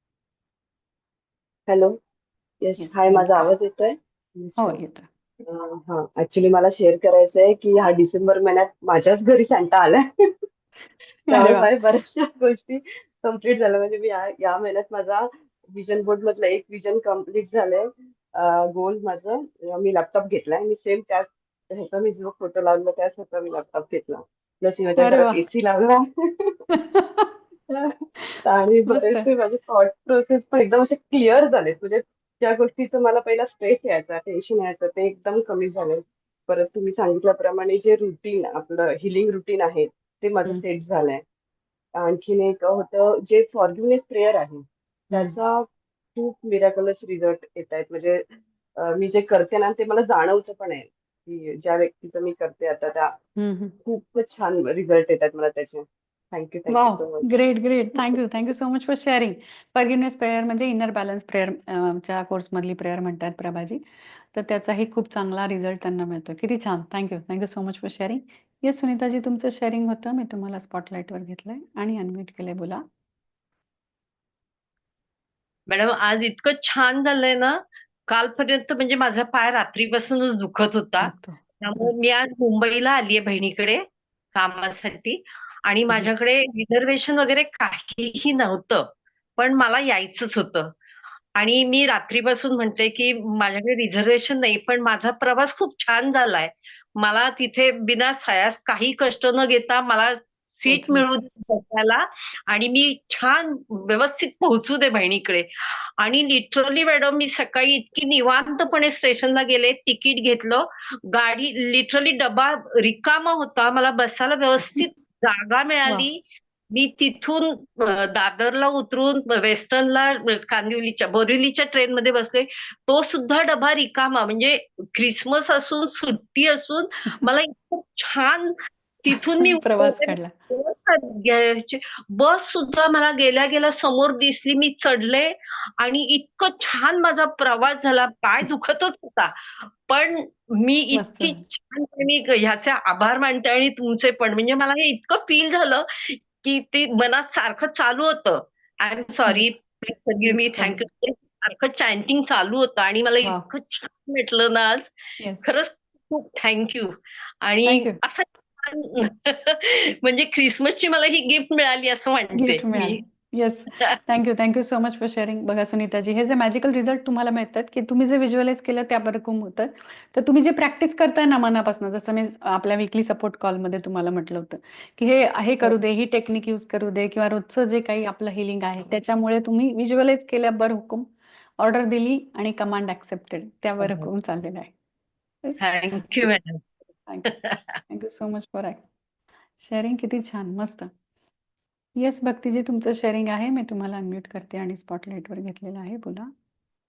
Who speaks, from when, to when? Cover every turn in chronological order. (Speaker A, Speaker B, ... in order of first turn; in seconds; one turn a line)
Speaker A: 1.7-2.0
Speaker A: 2.6-4.8
Speaker B: 2.8-3.5
Speaker B: 4.6-5.1
Speaker A: 5.5-10.1
Speaker B: 11.3-11.7
Speaker A: 11.3-26.6
Speaker B: 25.0-25.4
Speaker B: 26.8-27.3
Speaker A: 28.4-41.2
Speaker B: 28.9-29.3
Speaker A: 42.0-48.2
Speaker B: 45.1-45.4
Speaker A: 48.8-53.1
Speaker B: 53.4-53.8
Speaker A: 53.9-57.5
Speaker B: 56.7-63.8
Speaker B: 64.3-72.8
Speaker C: 75.7-83.8
Speaker B: 81.0-81.4
Speaker C: 84.3-90.7
Speaker C: 91.4-163.0
Speaker B: 100.7-101.1
Speaker B: 129.4-130.3
Speaker B: 140.9-141.4
Speaker B: 150.2-150.8
Speaker B: 155.2-155.6
Speaker B: 157.7-158.0
Speaker B: 162.3-181.1
Speaker B: 181.6-184.7
Speaker C: 183.8-184.1
Speaker B: 185.4-186.1
Speaker C: 185.6-186.6
Speaker C: 187.3-187.8
Speaker B: 187.9-188.8
Speaker B: 189.6-190.9
Speaker B: 192.0-196.3